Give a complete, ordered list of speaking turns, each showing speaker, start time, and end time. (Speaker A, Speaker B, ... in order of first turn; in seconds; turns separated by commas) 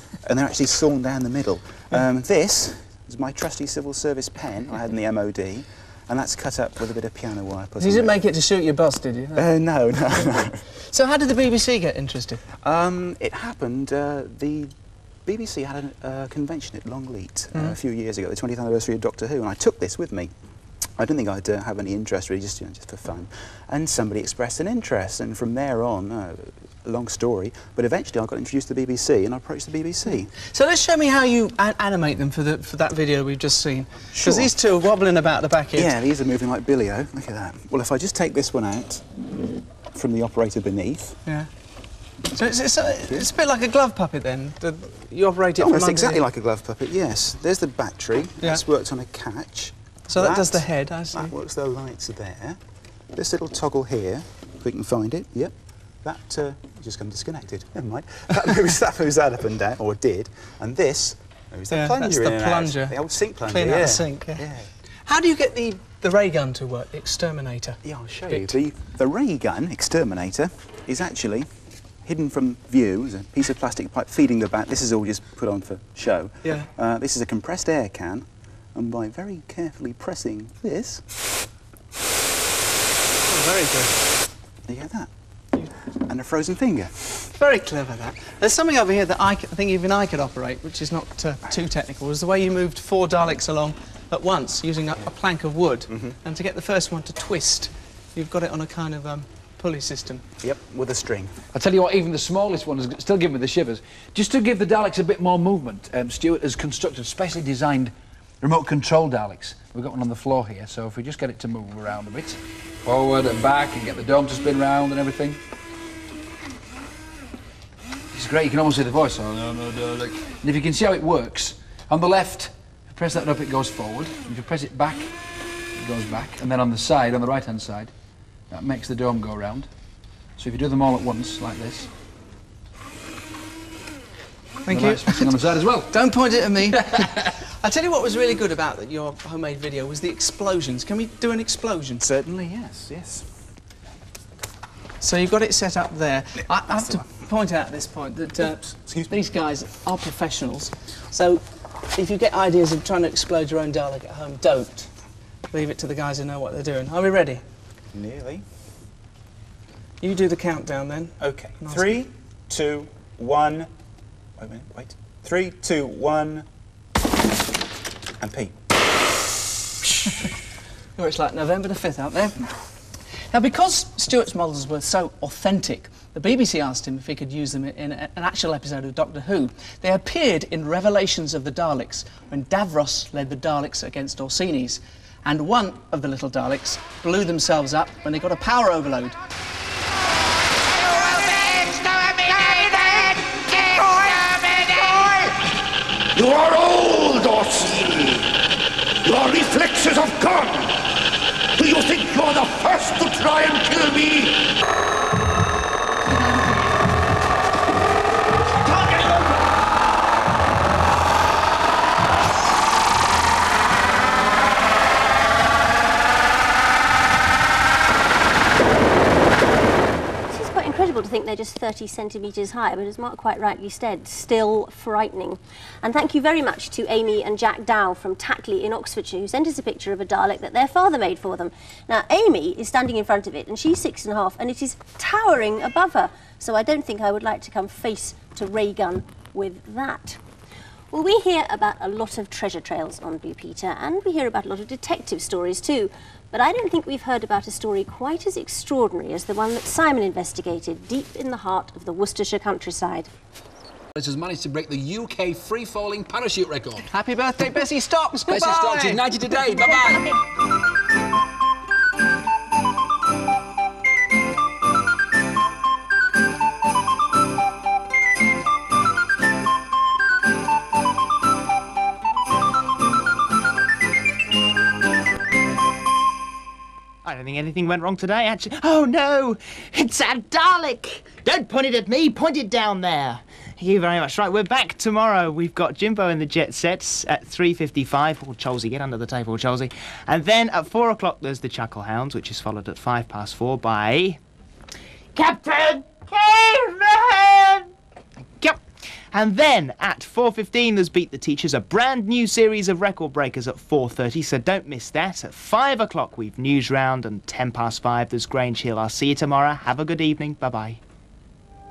Speaker A: 0.2-8.1, Speaker B: 7.8-9.5, Speaker A: 9.4-10.6, Speaker B: 10.9-12.4, Speaker A: 12.6-14.7, Speaker A: 15.3-20.3, Speaker A: 21.0-30.3, Speaker B: 30.4-35.9, Speaker A: 34.1-34.5, Speaker A: 35.8-39.0, Speaker A: 39.9-41.2, Speaker B: 42.3-46.2, Speaker A: 45.6-52.6, Speaker B: 50.1-51.3, Speaker A: 53.1-55.5, Speaker A: 56.0-64.7, Speaker B: 61.7-64.5, Speaker B: 65.1-67.8, Speaker A: 67.8-71.5, Speaker A: 72.0-81.0, Speaker B: 83.2-84.0, Speaker A: 84.7-85.1, Speaker A: 86.0-87.1, Speaker B: 87.3-100.2, Speaker A: 100.4-101.4, Speaker C: 101.5-115.4, Speaker C: 118.1-125.1, Speaker C: 125.8-127.9, Speaker C: 128.5-129.7, Speaker C: 130.4-131.9, Speaker B: 134.7-142.0, Speaker C: 134.7-136.0, Speaker C: 136.8-137.1, Speaker A: 142.0-143.3, Speaker B: 145.0-151.4, Speaker B: 151.9-154.9, Speaker B: 155.5-157.4, Speaker A: 157.9-158.4, Speaker B: 160.0-161.9, Speaker A: 161.2-163.7, Speaker A: 164.4-166.5, Speaker A: 168.2-168.5, Speaker B: 171.0-172.6, Speaker B: 173.3-189.2, Speaker D: 191.7-192.8, Speaker E: 193.6-193.9, Speaker D: 194.2-194.7, Speaker E: 194.8-195.3, Speaker E: 196.2-198.3, Speaker E: 199.0-200.8, Speaker E: 201.6-204.5, Speaker E: 208.7-209.1, Speaker F: 220.3-240.2, Speaker F: 240.9-253.1, Speaker C: 254.0-256.9, Speaker B: 256.9-259.1, Speaker C: 258.3-260.1, Speaker D: 277.0-294.2, Speaker D: 295.1-297.7, Speaker D: 299.1-310.8